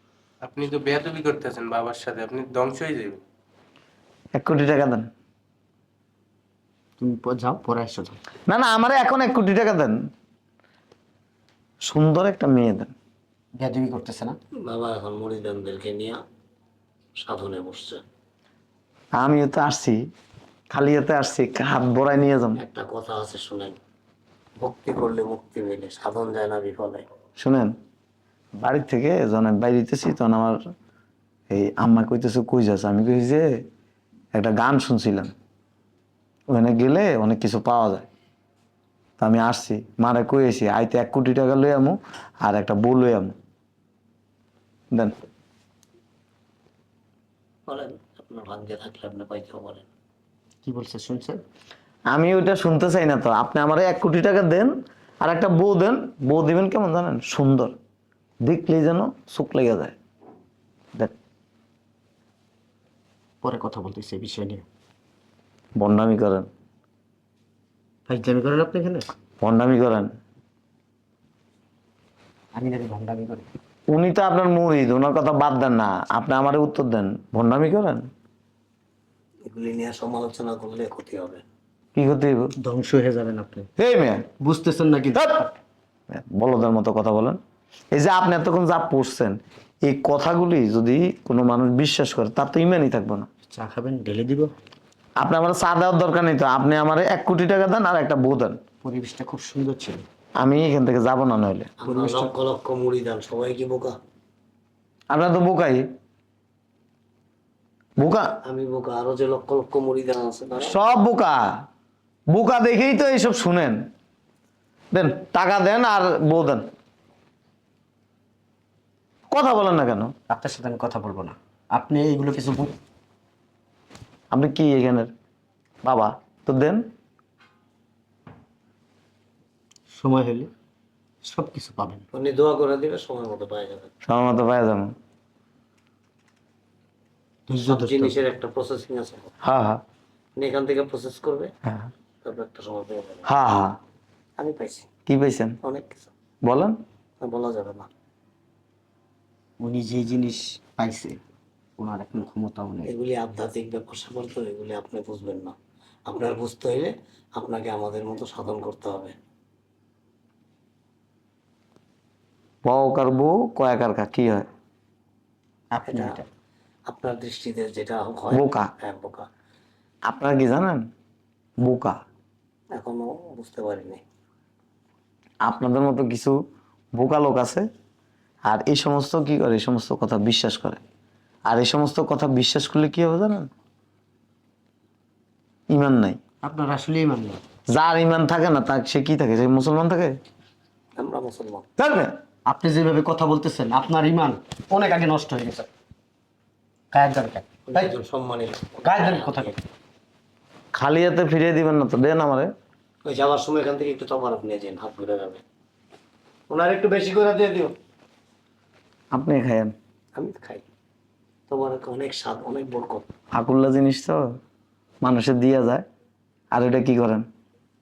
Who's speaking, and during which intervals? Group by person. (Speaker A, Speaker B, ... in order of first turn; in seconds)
Speaker A: 0.4-3.2
Speaker B: 4.3-5.1, 8.5-10.0, 11.8-12.9, 19.2-20.1, 20.7-22.6, 27.4-27.7, 28.6-30.6, 31.5-33.6, 34.3-35.3, 36.5-38.1, 39.2-43.3, 52.1-57.7, 58.4-60.0, 65.8-66.5, 69.4-70.1, 73.9-78.1, 82.0-82.5, 83.8-84.2, 85.2-85.4, 86.1-87.4, 87.9-93.3, 95.2-98.6, 100.4-101.7, 105.1-105.9, 108.0-108.3, 110.6-111.6, 112.3-113.9, 114.9-116.7, 119.3-120.1, 124.3-125.1, 125.8-126.8, 134.1-134.9, 139.4-139.8, 143.3-143.8, 145.1-145.6, 146.4-146.8, 162.6-164.5, 168.3-168.7, 170.1-170.9, 171.6-172.0, 175.4-176.4, 176.9-177.7, 178.4-180.8, 181.5-183.5, 185.7-186.2, 187.7-190.2, 191.8-192.1, 200.7-202.5, 209.1-209.7, 213.3-214.2, 215.0-215.8, 216.5-217.3
Speaker C: 7.0-8.2, 13.6-14.4, 50.6-51.4, 63.4-64.7, 68.1-69.1, 72.5-73.5, 82.6-83.7, 84.4-85.5, 93.5-94.5, 98.8-100.0, 101.8-102.3, 120.3-122.7, 129.9-130.5, 131.2-132.1, 137.5-138.2, 149.6-151.2, 151.8-152.9, 165.7-166.2, 186.4-187.4, 192.5-195.7, 196.9-197.9, 198.8-199.6
Speaker D: 14.7-16.2, 17.2-18.0, 22.6-23.8, 24.6-27.1, 47.7-49.9, 79.5-81.4, 101.8-103.9, 108.5-110.8, 132.1-133.9, 137.7-139.3, 140.4-141.5, 142.2-143.3, 144.4-144.9, 145.6-146.1, 147.2-147.9, 152.9-155.6, 156.1-159.2, 165.9-166.2, 166.9-169.3, 172.7-174.0, 191.0-191.7, 197.7-199.5, 203.1-205.4, 206.5-207.7, 210.2-210.6, 211.5-213.1